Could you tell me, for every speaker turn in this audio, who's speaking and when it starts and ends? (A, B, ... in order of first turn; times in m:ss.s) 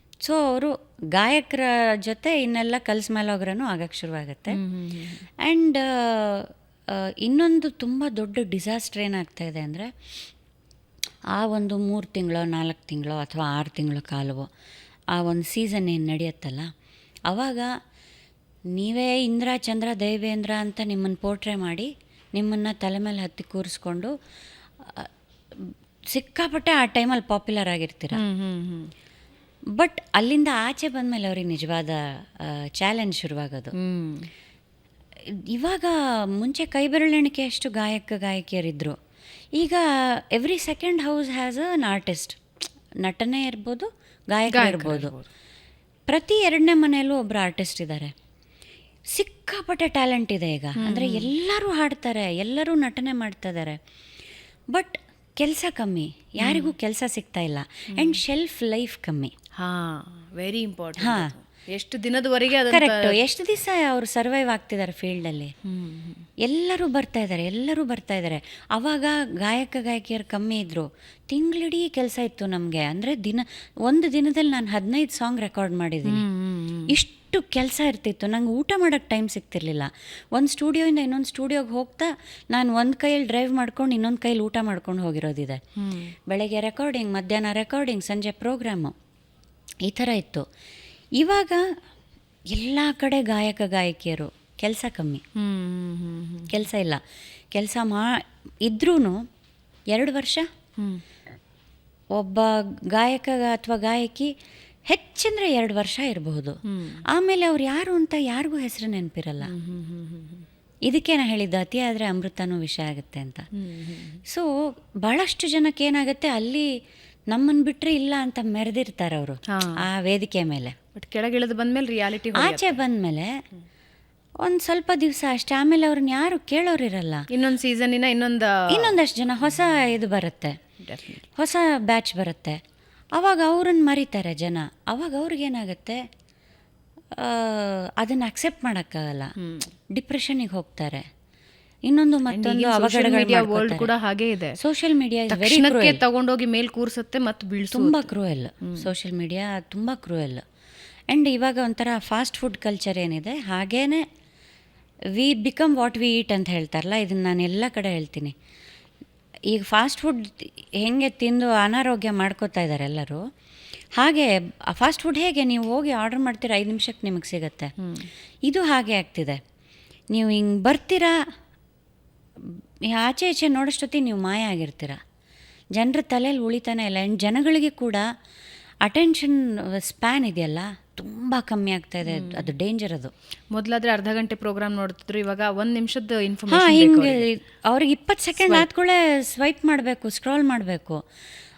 0:00.2-0:04.6 A
0:04.5-0:05.3 B
0:05.4-0:09.9 A
0:11.4-0:14.5 A
0:15.2-0:16.7 A
0:17.3-0:17.7 A
0:18.8-0:24.1 A
0:24.8-0:28.2 A
0:28.1-0:28.9 B
0:29.8-0:33.7 A
0:33.8-0:34.3 B
0:35.3-0:39.0 A
0:39.6-0:42.4 A
0:43.0-0:45.1 A
0:44.5-0:45.3 B
0:46.1-0:48.1 A
0:49.2-0:53.8 A
0:50.8-0:51.3 B
0:54.7-0:59.3 A
0:56.4-0:56.7 B
0:57.9-0:58.2 B
0:59.6-1:03.2 B
1:01.0-1:01.3 A
1:02.7-1:05.5 A
1:05.7-1:06.3 B
1:06.4-1:16.2 A
1:16.0-1:17.0 B
1:16.9-1:25.6 A
1:25.8-1:26.1 B
1:26.3-1:28.9 A
1:29.8-1:30.4 A
1:31.2-1:31.6 A
1:32.5-1:35.2 A
1:35.4-1:36.6 B
1:36.5-1:37.0 A
1:37.5-1:39.2 A
1:39.9-1:40.5 A
1:42.2-1:44.3 A
1:44.9-1:46.6 A
1:46.7-1:47.0 B
1:47.1-1:49.5 A
1:49.4-1:50.5 B
1:50.9-1:53.5 A
1:53.6-1:54.2 B
1:55.0-1:56.7 A
1:57.3-2:00.8 A
1:59.5-1:59.8 B
2:00.9-2:02.8 B
2:02.4-2:03.3 A
2:04.4-2:07.3 A
2:07.3-2:09.0 B
2:08.7-2:10.6 A
2:10.8-2:11.2 B
2:11.4-2:12.6 A
2:13.2-2:16.0 A
2:17.2-2:19.3 A
2:19.4-2:19.7 B
2:19.9-2:21.0 A
2:21.9-2:23.9 A
2:22.3-2:24.6 B
2:24.6-2:26.0 A
2:25.3-2:28.1 B
2:27.7-2:30.4 A
2:28.6-2:28.9 B
2:31.1-2:34.0 A
2:35.2-2:38.4 A
2:39.5-2:43.2 A
2:44.0-2:47.7 A
2:47.8-2:48.1 B
2:48.5-2:49.4 A
2:50.1-2:51.2 A
2:52.4-2:55.0 A
2:55.8-2:58.0 A
2:58.8-3:03.1 A
3:02.1-3:02.5 B
3:03.5-3:07.3 B
3:06.5-3:11.0 A
3:08.4-3:08.7 B